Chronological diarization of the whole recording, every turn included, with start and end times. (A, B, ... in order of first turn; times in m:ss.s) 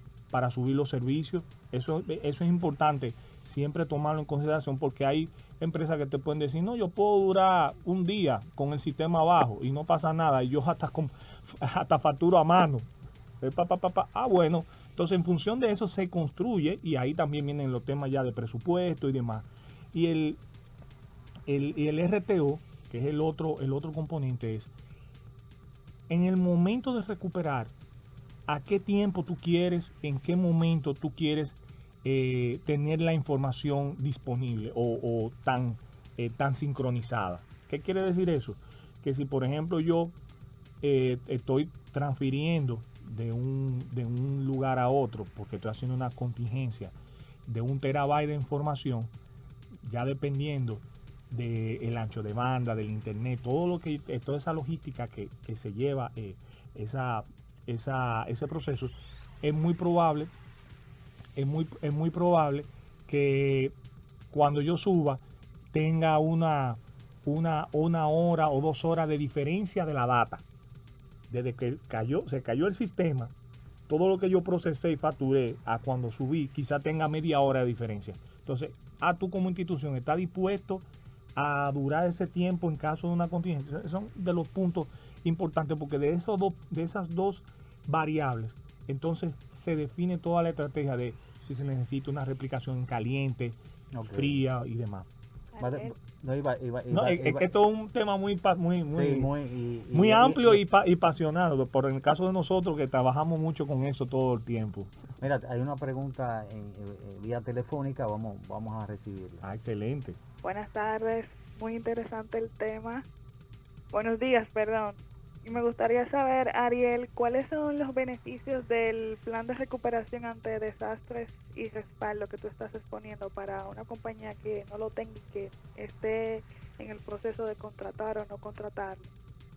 0:00.3-0:12.9 A
0:13.4-0:20.4 A
0:21.5-0:24.7 A
0:26.1-0:27.7 A
0:28.5-0:40.1 A
0:40.8-0:46.9 A
0:47.4-0:49.1 A
0:49.8-1:00.3 A
1:01.4-1:03.7 A
1:04.3-1:10.4 A
1:11.3-1:13.3 A
1:13.9-1:33.6 A
1:33.9-1:34.4 B
1:34.1-1:35.1 A
1:35.5-1:35.9 C
1:35.6-1:37.5 B
1:36.9-1:39.3 A
1:38.9-1:40.6 B
1:39.9-1:44.9 A
1:45.2-1:49.4 B
1:49.4-1:50.2 A
1:50.4-1:53.0 C
1:53.9-2:09.1 C